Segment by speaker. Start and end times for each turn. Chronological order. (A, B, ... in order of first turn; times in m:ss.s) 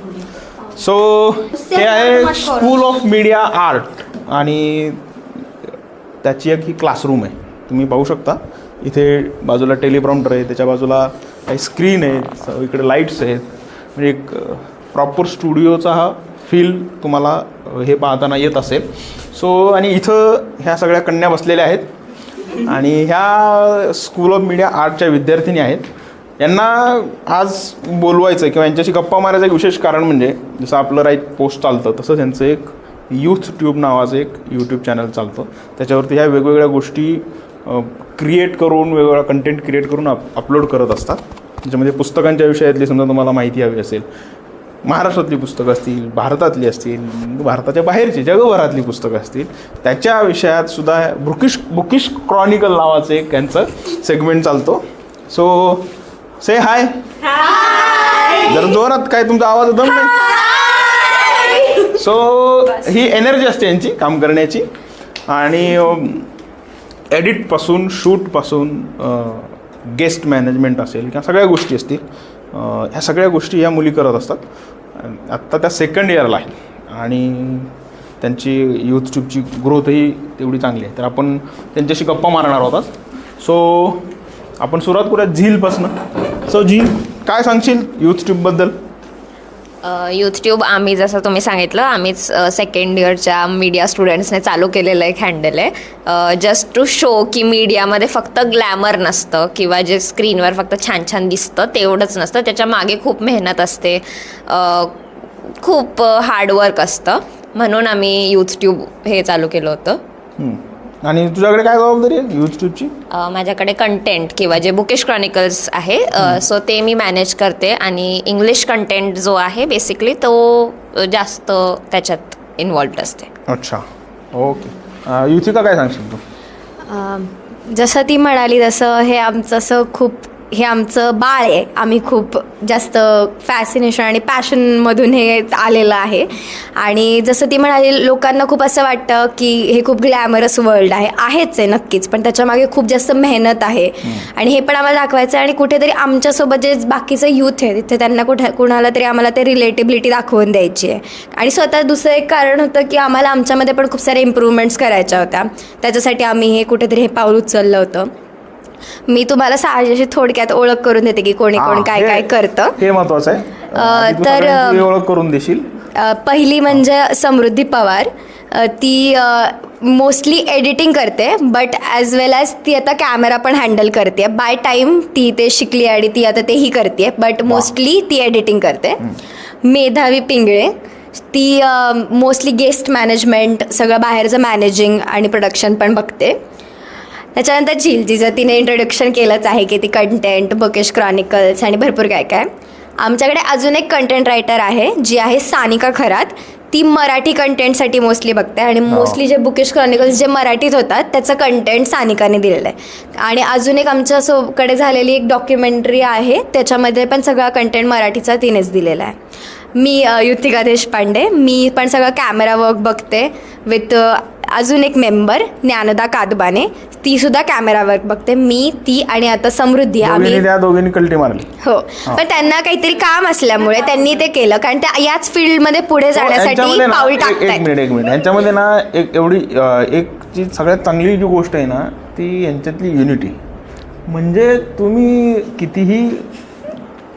0:00.7-0:05.7 A
0:01.8-0:02.7 B
0:06.2-0:21.9 A
0:22.6-0:25.9 A
0:26.4-0:44.1 A
0:44.8-0:55.9 A
0:56.4-0:57.0 A
0:57.5-0:58.5 B
0:58.4-1:00.3 A
1:00.5-1:01.9 B
1:01.9-1:04.7 A
1:05.3-1:06.3 A
1:07.1-1:14.4 A
1:14.9-1:24.1 A
1:24.6-1:28.8 A
1:29.8-1:45.0 C
1:45.6-1:50.0 C
1:50.4-1:52.9 A
1:53.1-2:03.3 C
2:03.5-2:06.2 A
2:06.8-2:38.1 B
2:39.1-2:42.8 B
2:41.5-2:45.7 A
2:43.7-2:44.9 B
2:46.0-2:59.0 B
2:59.6-3:06.4 B
3:07.3-3:29.2 B
3:18.9-3:19.2 A
3:29.7-3:40.4 B
3:40.0-3:41.5 A
3:41.6-3:47.6 B
3:46.1-3:53.4 A
3:54.0-3:56.3 A